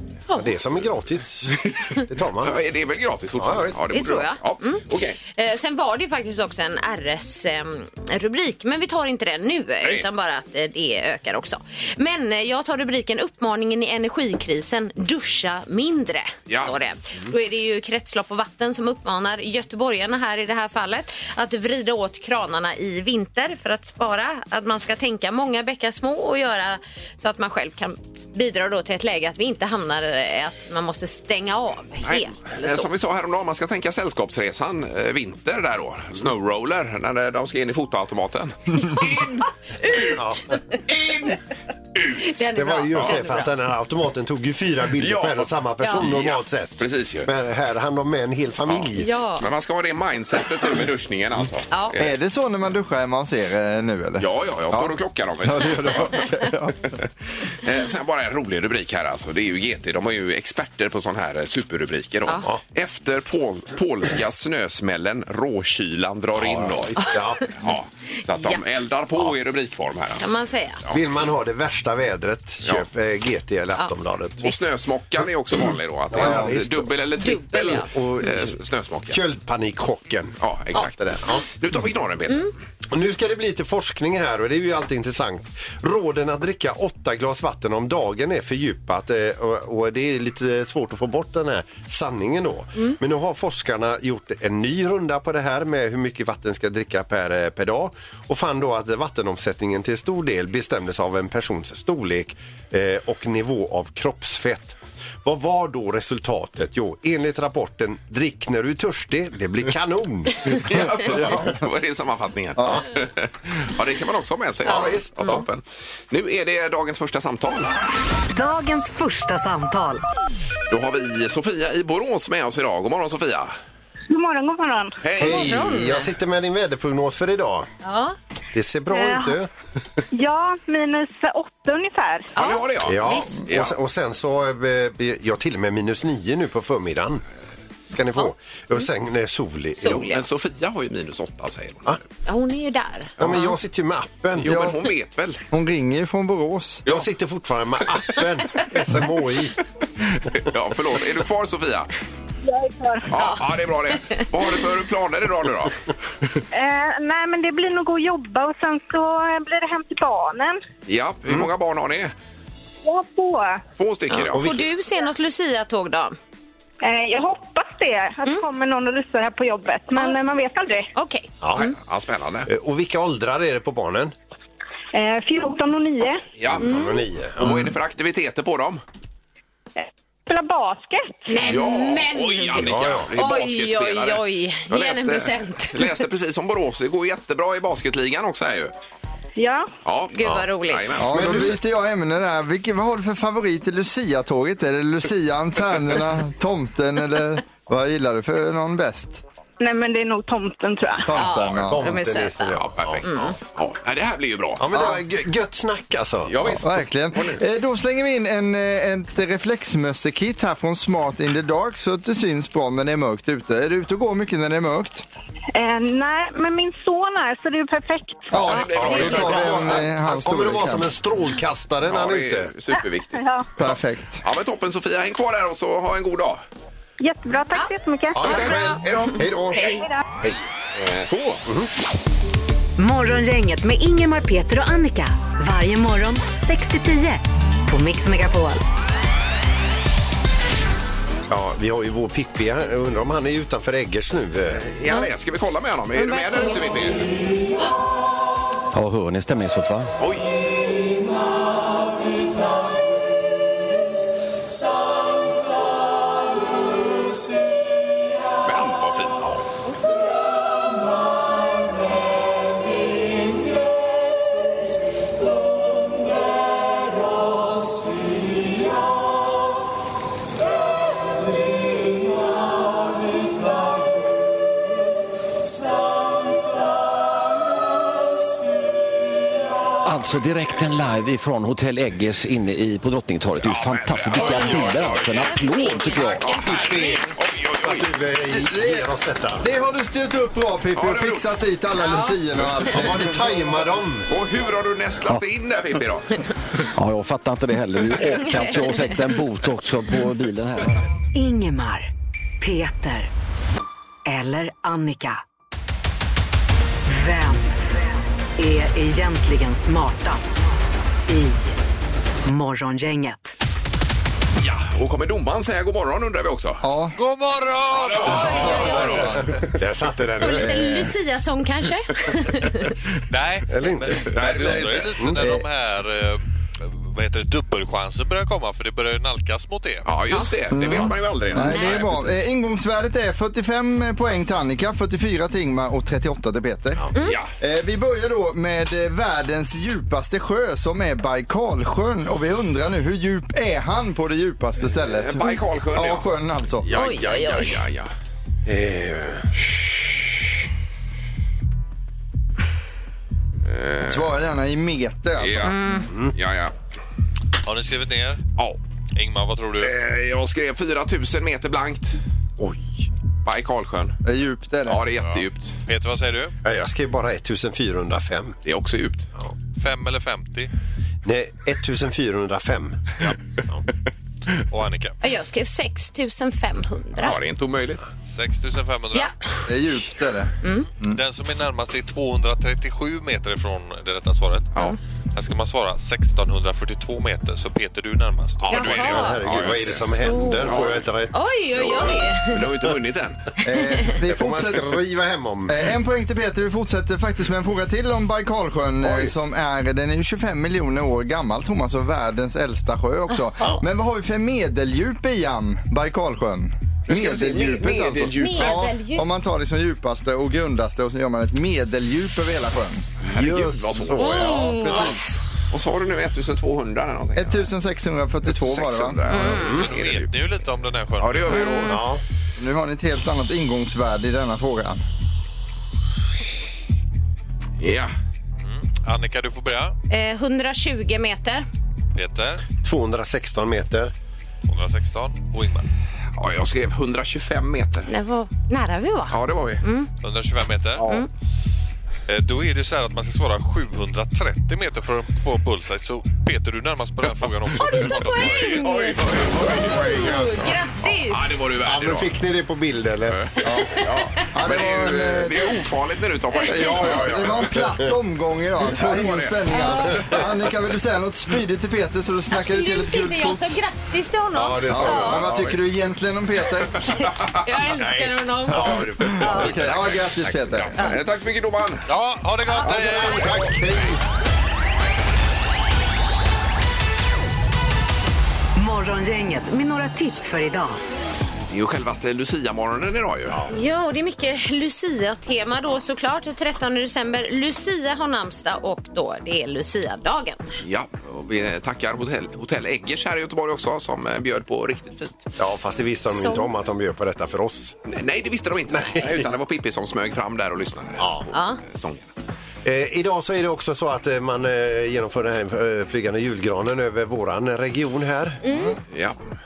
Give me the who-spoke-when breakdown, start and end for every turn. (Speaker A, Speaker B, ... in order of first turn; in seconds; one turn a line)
Speaker A: 0.3-2.6
Speaker B: 2.4-5.2
Speaker A: 3.4-3.8
Speaker C: 3.9-32.9
Speaker B: 16.5-16.7
Speaker B: 32.0-40.2
Speaker C: 39.8-40.7
Speaker A: 40.1-40.5
Speaker B: 40.9-41.4
Speaker B: 42.0-42.3
Speaker C: 42.2-43.5
Speaker A: 42.5-49.1
Speaker B: 45.0-47.3
Speaker B: 48.7-52.1
Speaker C: 49.0-49.4
Speaker D: 52.0-56.9
Speaker B: 54.2-56.2
Speaker B: 57.6-70.3
Speaker A: 66.3-67.5
Speaker C: 67.0-67.4
Speaker C: 68.3-68.6
Speaker C: 70.2-70.8
Speaker A: 70.9-74.4
Speaker B: 74.4-79.2
Speaker A: 76.1-77.0
Speaker D: 76.2-76.5
Speaker C: 77.2-77.9
Speaker A: 77.8-81.5
Speaker B: 80.4-82.5
Speaker A: 82.9-111.4
Speaker B: 110.5-117.7
Speaker D: 111.0-111.5
Speaker D: 112.6-112.8
Speaker A: 114.7-115.4
Speaker C: 114.7-115.4
Speaker E: 118.3-120.0
Speaker B: 120.7-123.5
Speaker F: 124.1-125.0
Speaker B: 125.0-125.5
Speaker A: 125.2-127.7
Speaker C: 125.2-126.1
Speaker C: 127.8-128.2
Speaker A: 128.5-129.5
Speaker F: 128.9-129.4
Speaker F: 130.1-132.3
Speaker C: 132.3-133.4
Speaker B: 132.4-133.8
Speaker A: 132.8-137.2
Speaker A: 137.9-140.0
Speaker C: 139.8-140.2
Speaker B: 139.8-141.9
Speaker C: 142.2-143.5
Speaker A: 143.2-144.6
Speaker B: 144.3-145.4
Speaker D: 144.5-144.8
Speaker D: 145.5-146.9
Speaker A: 146.8-149.6
Speaker B: 150.2-151.9
Speaker F: 152.4-153.1
Speaker B: 153.1-155.8
Speaker F: 156.5-160.6
Speaker B: 160.9-162.1
Speaker F: 162.8-163.6
Speaker B: 163.8-164.5
Speaker C: 164.1-166.2
Speaker A: 164.3-164.7
Speaker F: 166.8-170.9
Speaker C: 170.9-171.7
Speaker A: 171.4-171.7
Speaker B: 171.5-172.5
Speaker A: 172.5-174.1
Speaker F: 174.9-176.2
Speaker B: 176.4-176.7
Speaker A: 176.5-177.7
Speaker C: 176.6-177.0
Speaker B: 177.4-178.8
Speaker F: 179.8-181.4
Speaker C: 181.3-186.0
Speaker B: 181.4-188.7
Speaker A: 182.6-183.1
Speaker F: 189.4-189.7
Speaker B: 189.8-191.6
Speaker C: 190.2-190.9
Speaker D: 191.0-199.2
Speaker A: 191.1-191.5
Speaker F: 199.6-201.1
Speaker D: 201.0-201.8
Speaker C: 201.1-203.3
Speaker A: 201.6-203.0
Speaker B: 202.6-204.9
Speaker A: 204.6-206.6
Speaker B: 206.3-207.4
Speaker D: 206.5-215.1
Speaker F: 215.5-218.4
Speaker D: 218.3-220.9
Speaker B: 218.4-219.8
Speaker A: 218.7-222.5
Speaker C: 218.9-219.2
Speaker B: 221.8-226.4
Speaker F: 223.2-223.4
Speaker D: 223.6-224.2
Speaker F: 227.0-228.3
Speaker A: 228.2-230.3
Speaker B: 228.2-229.3
Speaker C: 228.2-229.8
Speaker B: 230.8-231.4
Speaker E: 232.8-238.6
Speaker A: 241.3-244.6
Speaker B: 244.6-247.0
Speaker C: 245.9-246.9
Speaker G: 248.7-249.9
Speaker B: 250.0-250.3
Speaker B: 258.4-259.3
Speaker G: 279.8-286.2
Speaker B: 283.4-287.9
Speaker C: 284.1-287.0
Speaker A: 286.3-287.1
Speaker A: 287.6-289.4
Speaker D: 288.3-293.3
Speaker B: 290.7-291.2
Speaker C: 291.8-292.2
Speaker A: 292.6-294.1
Speaker B: 294.1-296.2
Speaker G: 296.7-300.8
Speaker C: 298.3-299.0
Speaker E: 301.1-303.1
Speaker E: 304.1-305.2
Speaker E: 306.9-307.5
Speaker E: 308.4-310.4
Speaker E: 311.0-311.6
Speaker E: 312.2-313.3
Speaker B: 314.4-316.6
Speaker D: 316.6-317.0
Speaker H: 316.9-318.8
Speaker B: 317.7-319.1
Speaker C: 318.1-319.0
Speaker D: 318.2-319.4
Speaker A: 318.8-320.9
Speaker C: 320.2-322.8
Speaker D: 320.4-320.9
Speaker H: 323.1-329.9
Speaker A: 323.5-325.4
Speaker B: 324.1-325.0
Speaker B: 329.8-332.2
Speaker D: 330.5-336.9
Speaker C: 331.4-331.8
Speaker B: 337.0-337.3
Speaker D: 337.4-346.7
Speaker B: 344.8-346.1
Speaker B: 346.6-347.9
Speaker C: 346.7-347.6
Speaker A: 348.4-349.3
Speaker B: 353.4-354.1
Speaker D: 353.8-355.6
Speaker B: 355.2-355.6
Speaker C: 355.4-355.9
Speaker A: 355.9-356.1
Speaker B: 356.1-356.5
Speaker H: 357.4-358.2
Speaker H: 358.9-359.7
Speaker B: 359.6-362.0
Speaker A: 362.4-362.9
Speaker B: 363.2-364.0
Speaker D: 364.0-364.8
Speaker B: 364.6-365.6
Speaker H: 365.0-366.3
Speaker A: 366.4-368.4
Speaker B: 368.4-369.1
Speaker H: 369.6-370.5
Speaker A: 371.0-372.9
Speaker H: 374.5-374.9
Speaker C: 375.0-377.2
Speaker B: 377.0-377.8
Speaker H: 378.1-379.1
Speaker D: 379.4-381.0
Speaker C: 380.4-380.7
Speaker H: 380.9-384.6
Speaker H: 385.1-389.0
Speaker A: 388.4-391.2
Speaker B: 388.4-390.8
Speaker C: 388.5-389.2
Speaker C: 390.0-392.4
Speaker B: 391.6-393.2
Speaker D: 393.4-394.8
Speaker A: 394.0-395.6
Speaker D: 395.5-412.9
Speaker B: 398.8-399.1
Speaker B: 406.9-408.7
Speaker C: 408.2-409.1
Speaker B: 413.0-414.4
Speaker A: 413.0-415.0
Speaker C: 414.0-414.9
Speaker D: 414.1-415.0
Speaker B: 415.5-417.5
Speaker D: 417.1-419.4
Speaker B: 418.3-420.1
Speaker C: 419.1-419.5
Speaker A: 419.4-419.7
Speaker H: 419.4-421.6
Speaker B: 421.0-421.8
Speaker C: 421.3-421.8
Speaker A: 421.6-422.0
Speaker D: 422.4-424.8
Speaker B: 427.6-427.9
Speaker H: 428.4-429.8
Speaker C: 429.9-431.4
Speaker H: 431.9-432.4
Speaker A: 432.6-433.9
Speaker H: 434.5-435.7
Speaker B: 436.1-437.9
Speaker C: 437.9-439.9
Speaker B: 439.1-439.6
Speaker H: 440.0-440.9
Speaker C: 440.8-441.1
Speaker H: 442.1-448.6
Speaker C: 447.6-451.4
Speaker B: 448.3-450.5
Speaker A: 449.4-450.5
Speaker B: 451.1-452.1
Speaker A: 451.6-453.2
Speaker B: 453.1-457.6
Speaker D: 453.4-455.5
Speaker C: 453.6-453.9
Speaker C: 456.4-456.8
Speaker D: 456.5-463.6
Speaker A: 456.5-457.9
Speaker B: 458.7-459.4
Speaker C: 459.5-460.0
Speaker C: 462.3-465.2
Speaker A: 464.3-465.4
Speaker D: 464.7-466.9
Speaker B: 464.8-465.6
Speaker C: 466.9-469.6
Speaker A: 467.8-469.9
Speaker B: 469.2-471.9
Speaker D: 469.2-470.8
Speaker H: 471.9-473.6
Speaker C: 472.4-473.3
Speaker A: 472.6-474.0
Speaker E: 478.6-480.8
Speaker B: 481.5-483.4
Speaker A: 483.3-483.6
Speaker C: 483.5-490.4
Speaker B: 490.6-495.3
Speaker A: 495.4-497.8
Speaker C: 496.1-496.5
Speaker B: 497.9-502.1
Speaker A: 498.7-499.3
Speaker A: 501.0-501.3
Speaker C: 501.3-501.6
Speaker A: 502.6-508.4
Speaker C: 508.4-508.8
Speaker B: 508.9-509.2